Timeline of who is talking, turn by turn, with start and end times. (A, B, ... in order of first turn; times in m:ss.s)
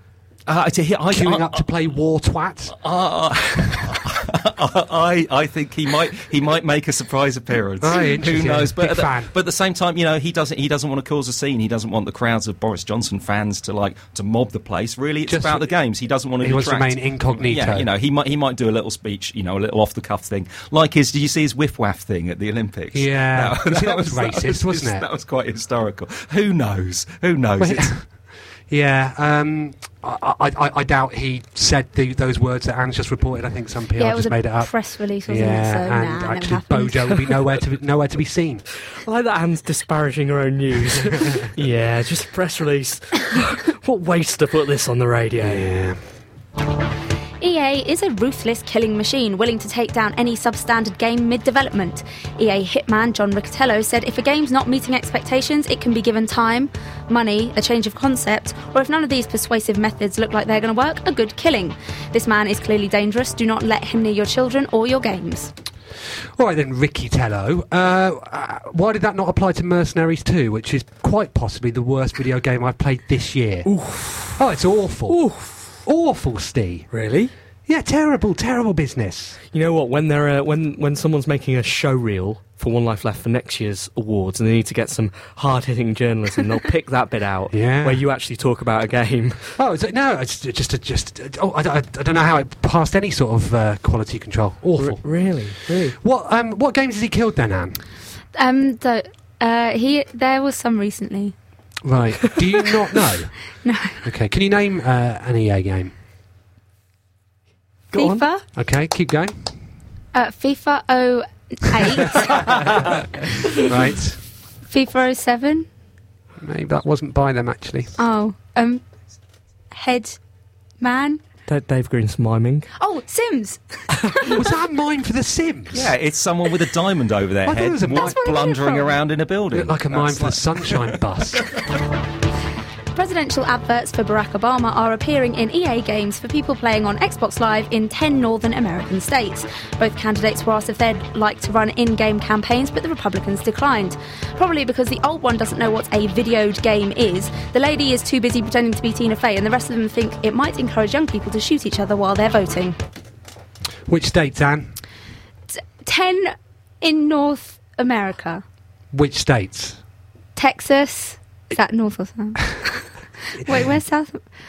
0:00.5-0:01.6 A
0:01.1-0:02.8 B
0:02.7-0:27.9 A
0:07.8-0:09.3 B
0:15.3-0:15.6 B
0:16.4-0:17.9 B
0:22.9-0:25.0 B
0:27.6-0:28.2 B
0:28.7-0:34.7 B
0:34.0-0:37.0 C
0:35.2-0:38.6 B
0:39.0-0:45.7 D
0:45.4-0:46.0 B
0:47.4-1:05.5 C
1:06.4-1:13.7 B
1:13.6-1:14.4 D
1:14.4-1:15.2 B
1:15.1-1:15.8 D
1:15.8-1:16.9 B
1:16.9-1:17.3 D
1:17.6-1:19.4 B
1:19.5-1:29.6 D
1:27.5-1:28.0 B
1:29.6-1:35.4 B
1:34.8-1:36.0 D
1:36.0-1:37.8 B
1:38.3-1:41.3 C
1:41.8-1:43.3 B
1:43.6-1:44.0 C
1:44.0-1:45.9 B
1:47.9-1:48.2 D
1:47.9-1:48.4 C
1:48.5-1:49.4 B
1:50.1-1:52.5 C
1:52.6-1:52.9 B
1:53.6-1:54.2 B
1:54.7-1:55.7 C
1:56.4-1:57.9 B
1:58.0-1:58.8 C
1:59.7-2:00.2 C
2:00.8-2:01.2 C
2:01.5-2:02.7 D
2:02.8-2:04.3 C
2:04.3-2:05.9 B
2:05.7-2:11.0 A
2:07.4-2:08.3 B
2:08.0-2:09.0 C
2:09.5-2:11.5 B
2:12.9-2:32.8 C
2:33.9-2:34.7 B
2:35.5-2:38.4 C
2:38.9-2:39.8 B
2:40.4-2:42.6 C
2:43.4-2:44.2 C